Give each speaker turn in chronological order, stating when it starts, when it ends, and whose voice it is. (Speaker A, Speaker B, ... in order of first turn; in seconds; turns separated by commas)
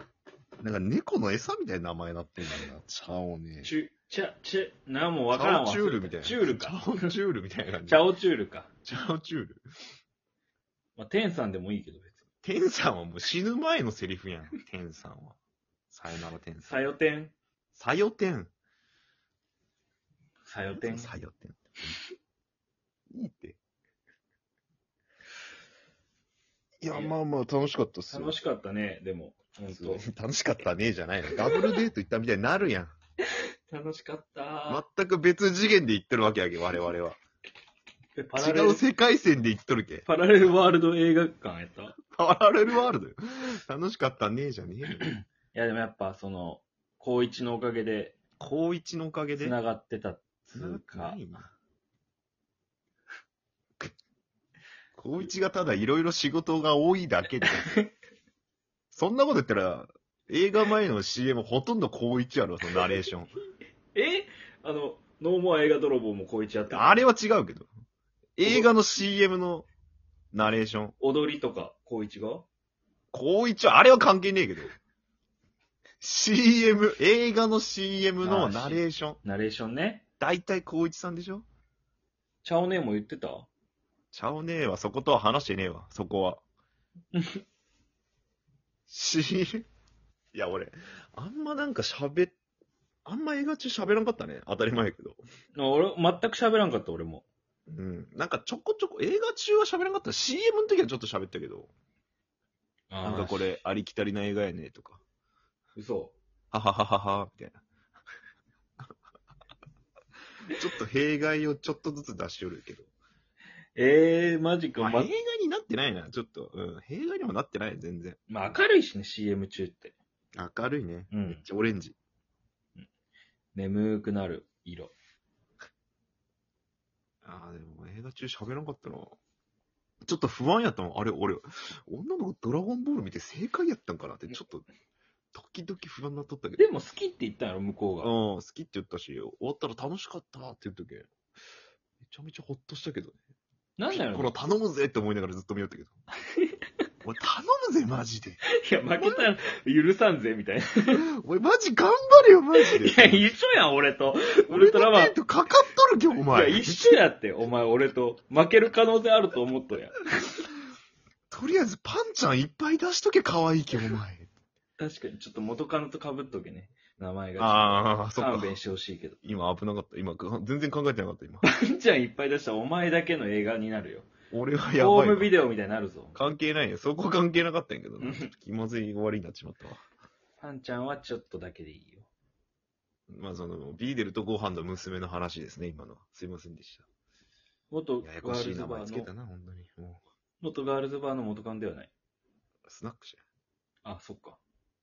Speaker A: 0.6-3.7, Speaker B: 3.6-7.1, Speaker A: 5.3-8.1, Speaker B: 7.8-8.7, Speaker A: 8.8-9.6, Speaker B: 10.9-12.2, Speaker A: 12.4-15.3, Speaker A: 15.9-16.8, Speaker B: 16.6-17.3, Speaker A: 17.7-18.5, Speaker B: 20.4-21.1, Speaker A: 20.8-21.8, Speaker A: 23.1-23.6, Speaker A: 26.8-28.4, Speaker B: 28.1-30.0, Speaker A: 29.7-32.9, Speaker B: 31.4-31.8, Speaker B: 33.3-34.8, Speaker A: 34.7-37.2, Speaker B: 38.1-38.8, Speaker A: 38.4-40.0, Speaker B: 40.0-42.0, Speaker A: 42.0-45.0, Speaker B: 45.0-48.2, Speaker A: 48.4-49.6, Speaker B: 49.4-51.2, Speaker A: 50.5-51.4, Speaker A: 55.0-57.8, Speaker A: 58.9-63.3, Speaker B: 63.9-67.0, Speaker A: 66.7-67.7, Speaker A: 68.4-69.7, Speaker B: 68.4-68.7, Speaker A: 70.3-70.9, Speaker B: 71.0-72.5, Speaker A: 73.1-74.7, Speaker A: 76.0-79.2, Speaker B: 78.2-80.0, Speaker A: 80.2-81.4, Speaker B: 82.4-83.5, Speaker A: 84.1-86.4, Speaker B: 87.1-87.4, Speaker A: 88.9-89.6, Speaker A: 90.3-92.3, Speaker A: 93.0-95.2, Speaker B: 95.5-97.2, Speaker A: 97.7-101.7, Speaker B: 102.9-103.5, Speaker A: 103.0-105.0, Speaker B: 105.8-106.2, Speaker A: 106.5-107.5, Speaker A: 110.5-112.9, Speaker B: 113.8-115.1, Speaker A: 114.8-118.3, Speaker B: 118.3-119.9, Speaker A: 120.3-122.0, Speaker B: 121.1-121.4, Speaker B: 123.5-124.9, Speaker A: 127.2-129.2, Speaker A: 130.0-134.6, Speaker A: 135.3-136.6, Speaker B: 136.6-138.1, Speaker A: 138.0-141.1, Speaker A: 142.0-143.2, Speaker B: 143.8-144.3, Speaker A: 143.9-145.9, Speaker A: 147.0-148.4, Speaker B: 148.6-151.0, Speaker A: 149.0-149.3, Speaker A: 151.0-153.3, Speaker B: 152.6-155.2, Speaker A: 154.5-157.0, Speaker B: 156.3-160.3, Speaker A: 161.3-164.3, Speaker B: 164.8-169.2, Speaker A: 167.4-168.6, Speaker A: 169.2-171.4, Speaker B: 171.4-174.1, Speaker A: 174.3-175.3, Speaker B: 174.8-176.2, Speaker A: 176.1-179.8, Speaker B: 178.0-178.3, Speaker B: 180.4-182.1, Speaker A: 183.1-186.8, Speaker B: 187.7-189.1, Speaker A: 188.0-190.0, Speaker B: 190.4-191.9, Speaker A: 192.7-193.2, Speaker B: 193.8-194.4